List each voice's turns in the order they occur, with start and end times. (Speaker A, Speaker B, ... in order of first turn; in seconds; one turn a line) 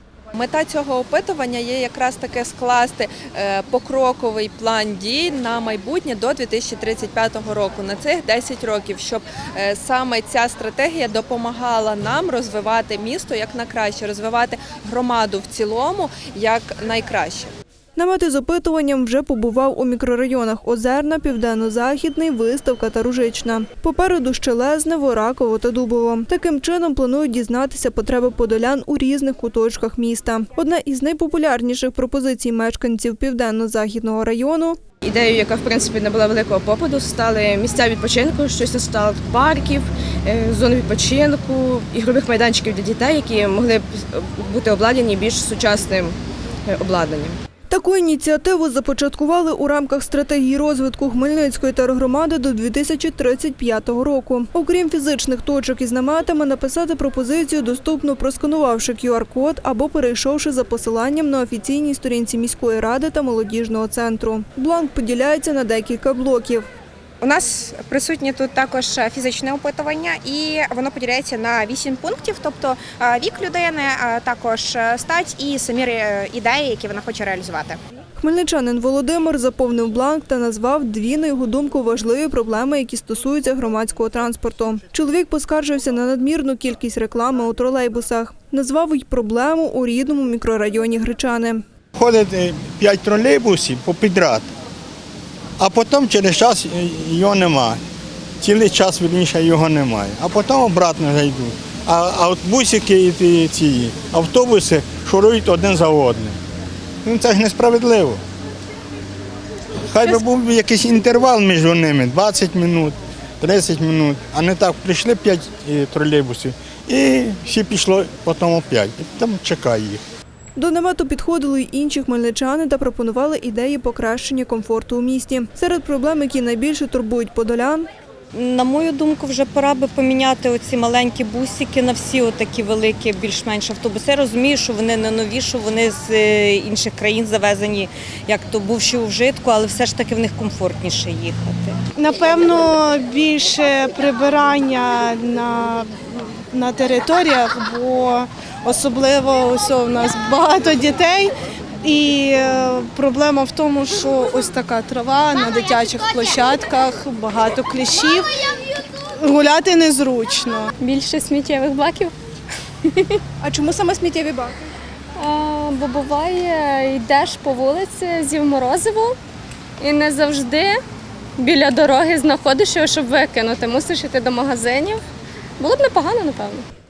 Speaker A: 0.3-17.5
Speaker B: 18.0-34.8
Speaker C: 35.0-47.4
Speaker B: 47.7-66.7
Speaker D: 67.2-77.8
Speaker B: 78.2-91.6
Speaker E: 92.0-94.5
Speaker E: 95.6-97.8
Speaker E: 98.4-106.4
Speaker E: 107.0-108.2
Speaker E: 109.9-120.0
Speaker B: 120.6-127.9
Speaker F: 128.3-141.8
Speaker G: 142.0-145.9
Speaker G: 146.5-158.3
Speaker G: 159.2-160.7
Speaker H: 160.8-162.1
Speaker H: 162.9-163.2
Speaker B: 163.4-164.6
Speaker H: 165.2-169.2
Speaker H: 169.8-170.8
Speaker H: 171.4-175.0
Speaker H: 175.6-176.6